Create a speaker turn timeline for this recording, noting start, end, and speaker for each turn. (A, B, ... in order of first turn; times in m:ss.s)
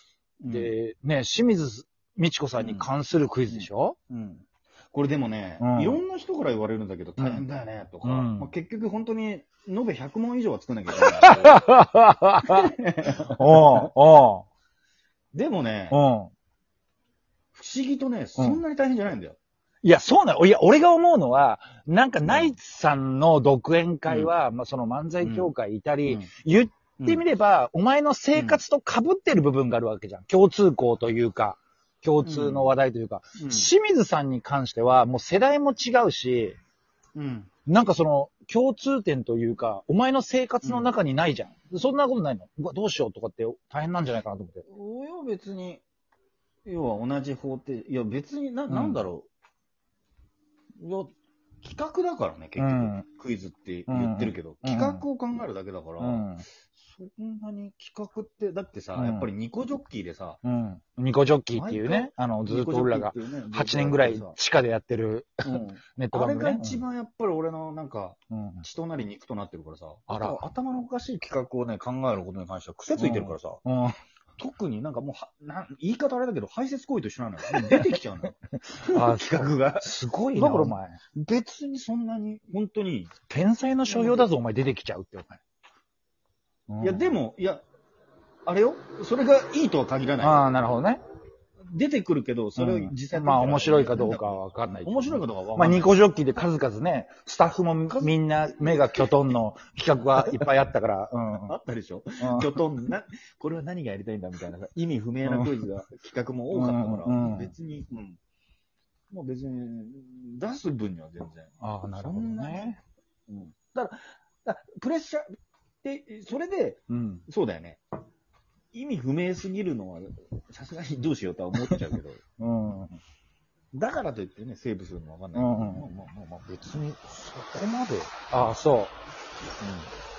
0:00.4-0:00.7 A
0:00.5-0:04.0 B
0:02.6-0:02.9 A
0:03.5-0:11.9 A
0:05.6-0:06.0 B
0:07.2-0:07.4 B
0:08.0-0:08.5 B
0:11.0-0:14.4 B
0:12.4-0:13.9 A
0:15.3-0:16.0 A
0:15.9-0:16.3 B
0:17.5-0:19.4 A
0:19.8-0:36.6 B
0:22.2-0:22.6 A
0:24.1-0:24.3 A
0:25.2-0:25.5 A
0:27.0-0:27.2 A
0:28.3-0:28.6 A
0:32.2-0:32.8 A
0:33.4-0:33.7 A
0:37.1-0:37.5 A
0:37.6-0:44.6 B
0:40.6-0:40.9 A
0:44.7-0:45.8 A
0:46.6-0:49.3 A
0:48.7-0:49.0 B
0:50.8-1:00.4 A
0:52.6-0:53.0 B
0:53.9-0:55.0 B
0:56.0-0:56.4 B
0:58.9-0:59.3 B
1:00.4-1:06.8 B
1:01.5-1:04.4 A
1:05.4-1:13.6 A
1:08.3-1:08.6 B
1:10.1-1:10.4 B
1:12.9-1:13.9 B
1:14.4-1:23.1 A
1:17.5-1:17.9 B
1:18.7-1:21.0 B
1:23.3-1:25.4 B
1:23.8-1:24.3 A
1:26.7-1:27.1 B
1:26.8-1:27.6 A
1:28.4-1:30.5 A
1:30.2-1:31.0 B
1:31.6-1:36.0 A
1:32.6-1:41.5 B
1:37.9-1:39.3 A
1:41.4-1:48.2 A
1:42.2-1:42.6 B
1:45.2-1:45.6 B
1:46.5-1:47.5 B
1:49.1-1:55.3 A
1:51.6-1:52.8 B
1:55.8-1:57.8 A
1:56.9-1:57.2 B
1:58.7-2:02.2 A
2:02.4-2:03.0 B
2:03.7-2:08.3 A
2:05.3-2:05.8 B
2:08.3-2:08.9 B
2:09.6-2:09.9 A